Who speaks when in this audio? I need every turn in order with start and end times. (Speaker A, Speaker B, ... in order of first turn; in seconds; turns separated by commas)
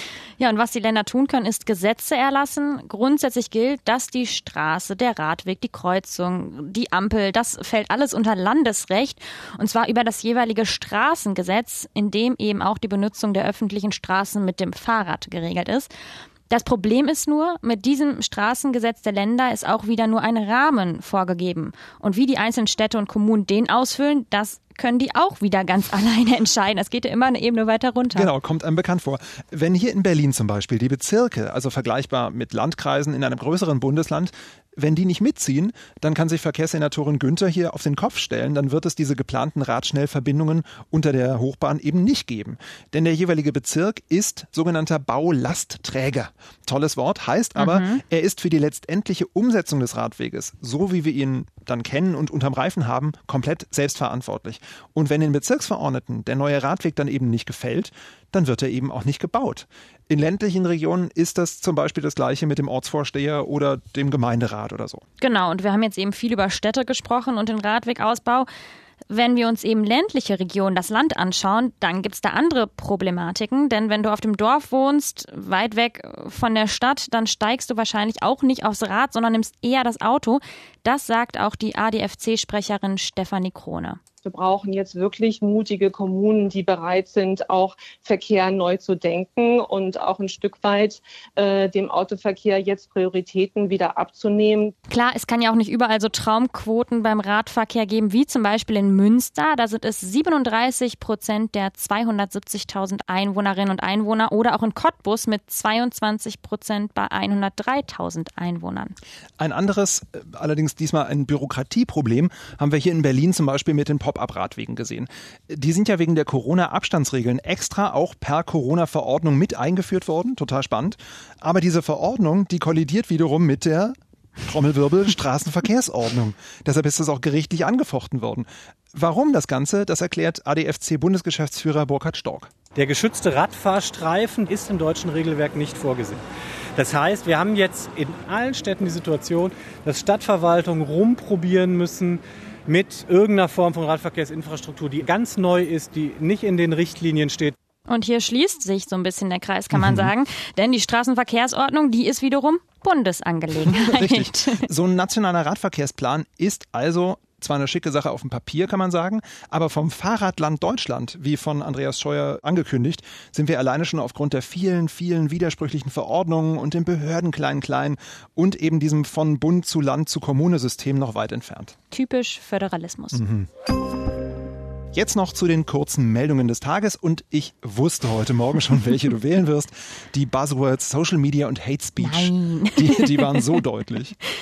Speaker A: 0.4-15.9, Speaker A: 16.5-28.3, Speaker B: 28.1-65.0, Speaker A: 47.6-48.0, Speaker A: 65.2-68.5, Speaker A: 69.1-84.0, Speaker C: 84.2-94.7, Speaker A: 94.9-109.0, Speaker B: 109.4-132.5, Speaker D: 132.7-136.2, Speaker D: 136.8-147.5, Speaker A: 147.9-154.6, Speaker B: 149.7-150.1, Speaker B: 153.6-171.7, Speaker A: 171.9-173.2, Speaker B: 173.1-173.5, Speaker B: 174.9-184.1, Speaker A: 182.0-183.5